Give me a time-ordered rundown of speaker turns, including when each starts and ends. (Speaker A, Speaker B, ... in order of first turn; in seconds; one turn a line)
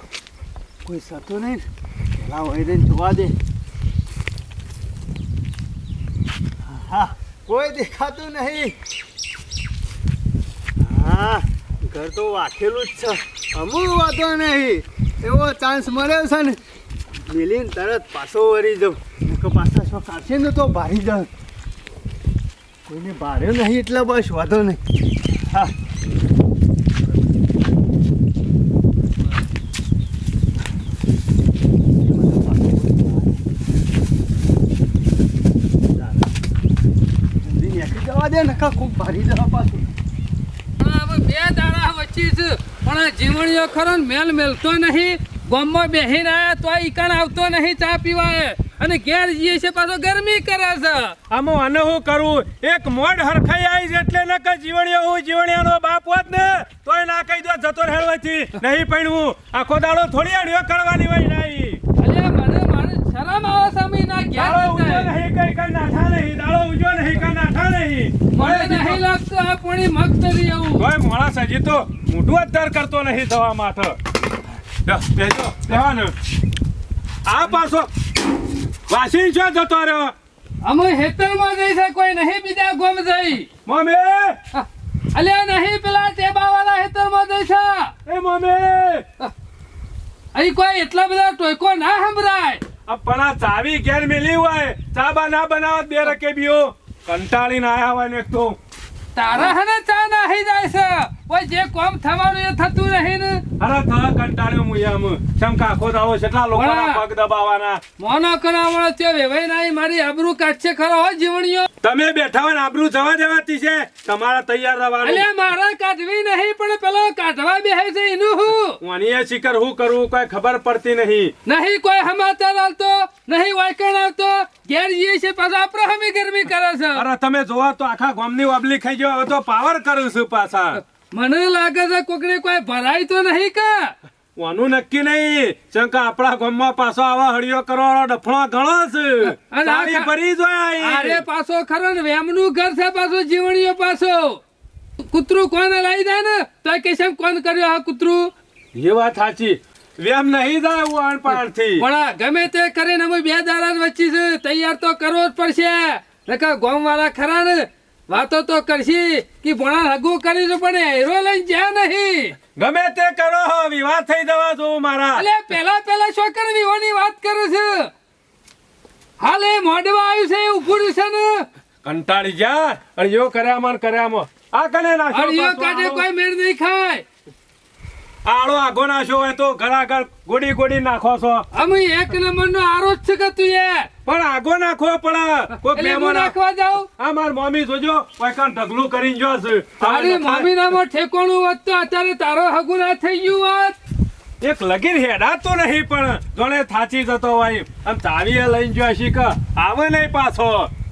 Speaker A: 0.8-1.6
Speaker A: 2.2-3.3
Speaker A: 6.7-8.7
Speaker A: 10.8-16.6
Speaker A: 17.3-21.3
Speaker A: 22.9-24.8
Speaker A: 32.1-33.3
Speaker A: 37.5-39.9
Speaker B: 40.8-51.2
Speaker C: 51.3-61.8
Speaker B: 62.0-65.1
Speaker C: 64.3-69.0
Speaker B: 68.3-70.8
Speaker C: 70.8-74.0
Speaker C: 74.8-76.1
Speaker C: 77.2-77.9
Speaker C: 78.9-80.1
Speaker B: 80.6-83.5
Speaker C: 83.6-84.4
Speaker B: 84.5-87.9
Speaker C: 88.0-89.0
Speaker B: 90.3-92.6
Speaker C: 92.9-98.6
Speaker B: 99.1-103.4
Speaker C: 103.6-107.8
Speaker B: 106.5-107.0
Speaker B: 108.0-111.7
Speaker C: 111.8-115.2
Speaker B: 115.0-118.8
Speaker C: 118.8-121.3
Speaker B: 121.5-127.0
Speaker C: 126.9-130.8
Speaker B: 131.1-133.9
Speaker C: 134.3-141.2
Speaker B: 139.2-140.1
Speaker B: 140.8-144.4
Speaker B: 145.0-148.3
Speaker C: 148.7-151.8
Speaker B: 151.3-162.4
Speaker C: 162.6-165.2
Speaker B: 165.1-167.9
Speaker B: 169.2-171.4
Speaker C: 171.8-176.1
Speaker B: 175.1-177.1
Speaker C: 178.2-181.5
Speaker B: 181.5-183.9
Speaker C: 184.0-186.3
Speaker B: 185.6-186.9
Speaker C: 187.0-190.5
Speaker B: 189.8-193.8
Speaker C: 194.4-200.7